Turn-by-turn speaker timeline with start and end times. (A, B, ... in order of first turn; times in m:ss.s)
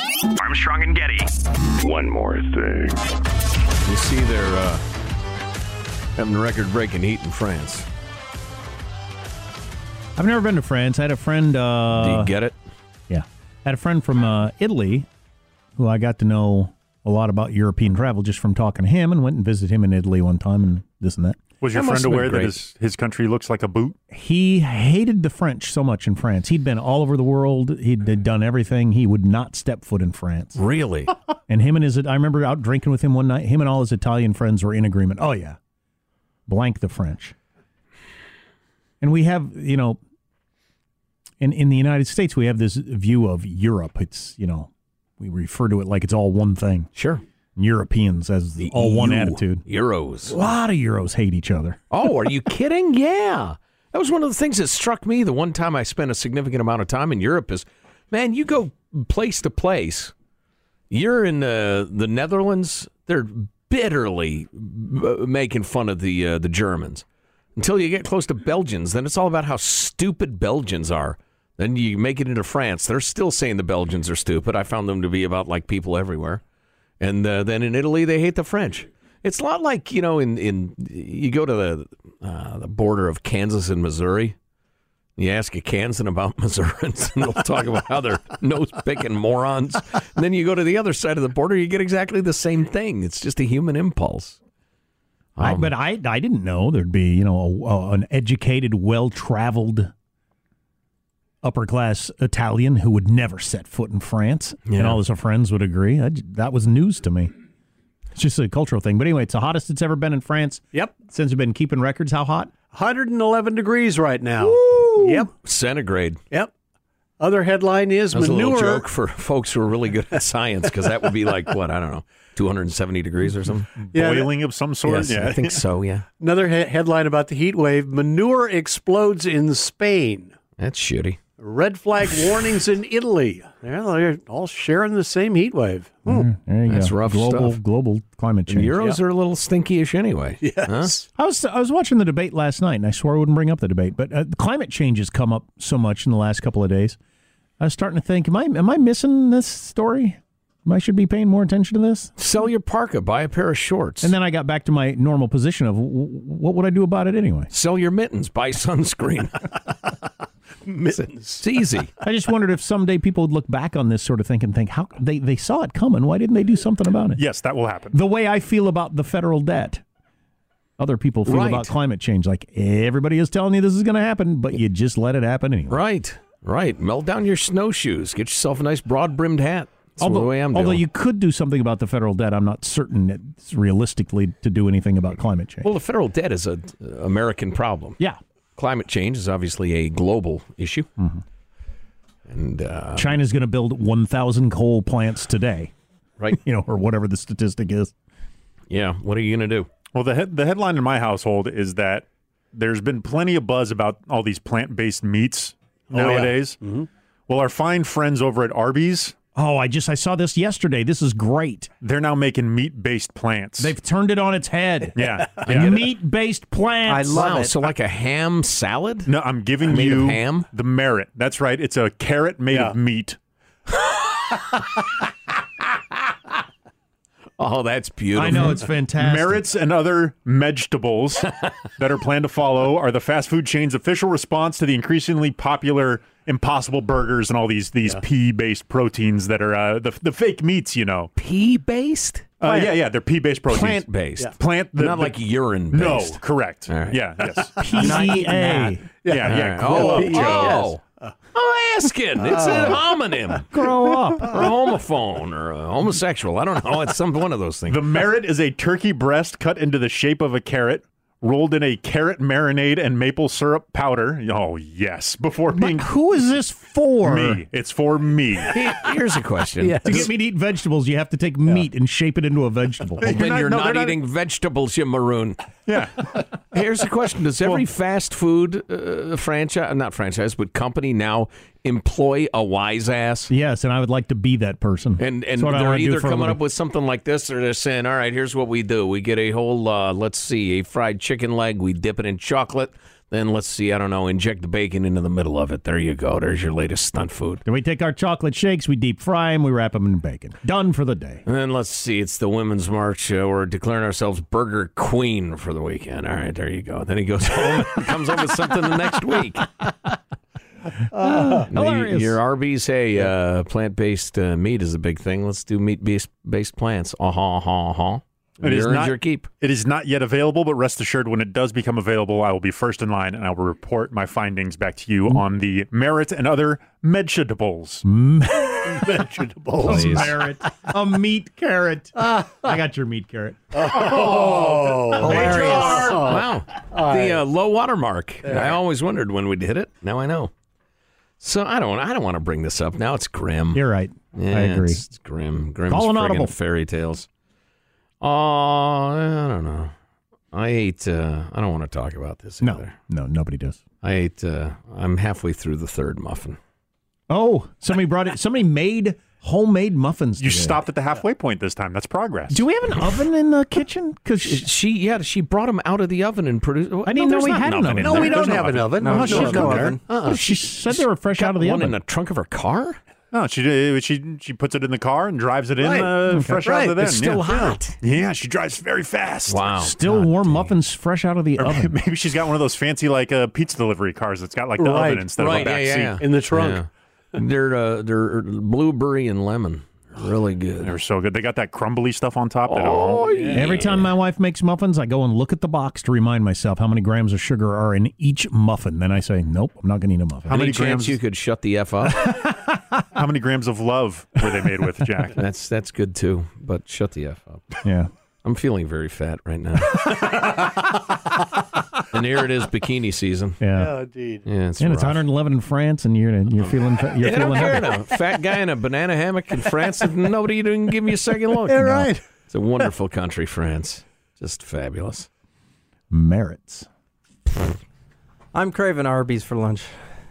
0:00.4-0:03.0 A
0:03.8-0:04.8 A
0:06.2-0:07.9 A
0:10.2-0:12.4 B
0:11.9-0:12.6 A
0:13.1-0:15.1 B
0:15.8-0:21.4 B
0:21.6-0:24.0 C
0:21.7-0:22.6 A
0:24.1-0:30.6 B
0:30.5-0:31.1 A
0:31.5-0:35.6 B
0:36.5-0:37.3 B
0:39.0-0:40.0 B
0:41.4-0:46.9 B
0:47.0-0:47.2 A
0:47.6-0:49.6 B
0:48.6-0:50.4 A
0:50.3-0:51.8 B
0:51.9-1:00.1 A
1:00.9-1:16.4 A
1:17.0-1:24.4 A
1:25.2-1:34.4 A
1:35.4-1:35.7 A
1:35.4-1:39.9 B
1:41.4-1:47.3 B
1:44.7-1:45.0 A
1:48.1-1:52.5 B
1:52.7-1:55.3 D
1:54.4-1:55.3 B
1:55.4-1:56.2 A
1:57.2-1:58.9 D
1:58.1-2:03.7 A
2:03.8-2:05.6 C
2:03.9-2:04.3 D
2:04.8-2:06.1 A
2:06.2-2:10.3 D
2:10.6-2:11.2 A
2:11.4-2:16.3 D
2:16.1-2:18.8 B
2:16.7-2:17.6 A
2:18.5-2:20.9 A
2:20.4-2:21.1 D
2:21.2-2:27.0 B
2:27.6-2:32.1 B
2:32.2-2:34.1 A
2:34.0-2:37.5 B
2:37.5-2:39.7 A
2:40.6-2:41.4 D
2:41.4-2:41.9 A
2:42.0-2:47.2 B
2:47.2-2:47.9 C
2:47.9-2:49.8 B
2:50.8-2:55.8 B
2:51.2-2:51.7 A
2:55.7-3:00.8 A
3:00.0-3:05.7 B
3:05.6-3:08.0 A
3:08.6-3:10.9 A
3:11.0-3:11.2 B
3:12.3-3:13.2 A
3:13.0-3:15.7 B
3:16.3-3:17.9 B
3:18.7-3:19.7 A
3:19.9-3:26.6 C
3:25.9-3:26.9 D
3:27.3-3:29.2 C
3:29.3-3:31.7 B
3:31.8-3:33.7 C
3:33.6-3:37.2 B
3:35.0-3:35.9 C
3:36.8-3:37.6 E
3:37.1-3:39.1 A
3:39.1-3:43.2 C
3:39.6-3:40.5 A
3:47.4-3:48.6 A
3:48.1-3:49.4 B
3:48.9-4:01.1 C
4:01.2-4:02.5 A
4:02.4-4:05.2 C
4:03.5-4:07.9 A
4:05.7-4:07.8 C
4:07.6-4:08.8 B
4:07.8-4:08.8 E
4:09.0-4:11.1 D
4:09.1-4:10.6 C
4:09.2-4:10.8 A
4:11.3-4:13.6 A
4:12.2-4:12.8 D
4:13.5-4:14.5 B
4:14.1-4:17.8 A
4:17.7-4:25.9 C
4:25.5-4:27.4 B
4:27.0-4:28.6 C
4:28.5-4:30.1 A
4:29.6-4:30.1 D
4:29.8-4:33.2 B
4:33.0-4:34.0 C
4:33.0-4:35.4 A
4:35.7-4:36.1 C
4:36.5-4:43.3 A
4:43.3-4:46.4 B
4:45.0-4:57.4 A
4:57.4-5:01.2 B
5:01.2-5:09.5 A
5:11.0-5:12.2 B
5:11.4-5:19.3 A
5:18.4-5:27.8 C
5:27.8-5:28.9 B
5:28.6-5:30.3 D
5:29.6-5:33.4 B
5:29.6-5:30.2 A
5:33.5-5:37.2 D
5:33.7-5:40.3 A
5:35.0-5:35.8 E
5:38.2-5:38.6 D
5:41.2-5:43.6 A
5:43.5-5:44.8 B
5:44.1-5:47.1 A
5:45.7-5:46.3 B
5:48.0-5:49.7 A
5:50.3-5:52.7 A
5:52.4-5:53.6 B
5:53.8-5:56.4 A
5:57.1-6:00.6 B
6:00.2-6:02.4 C
6:02.3-6:04.5 B
6:02.8-6:03.0 A
6:04.2-6:12.8 A
6:06.8-6:08.2 B
6:07.8-6:10.2 D
6:08.0-6:09.3 C
6:08.8-6:09.8 E
6:08.8-6:11.8 B
6:13.1-6:19.5 C
6:15.6-6:17.6 D
6:16.1-6:16.4 B
6:17.3-6:17.8 A
6:19.3-6:20.5 A
6:19.6-6:21.8 B
6:21.4-6:26.0 C
6:24.6-6:26.6 D
6:25.2-6:30.8 A
6:30.6-6:33.2 C
6:32.5-6:33.9 A
6:33.1-6:33.4 D
6:33.3-6:40.3 B
6:40.2-6:41.0 C
6:40.3-6:42.1 A
6:42.2-6:42.6 B
6:42.9-6:45.2 C
6:45.1-6:47.6 A
6:47.6-6:47.9 B
6:48.2-6:50.8 A
6:51.8-6:53.4 A
6:53.4-6:53.8 B
6:53.6-6:54.2 D
6:54.2-6:55.0 A
6:54.6-6:57.9 B
6:57.0-7:01.7 A
7:01.4-7:02.0 D
7:01.6-7:01.9 B
7:02.3-7:05.1 A
7:05.9-7:06.7 B
7:08.3-7:09.7 E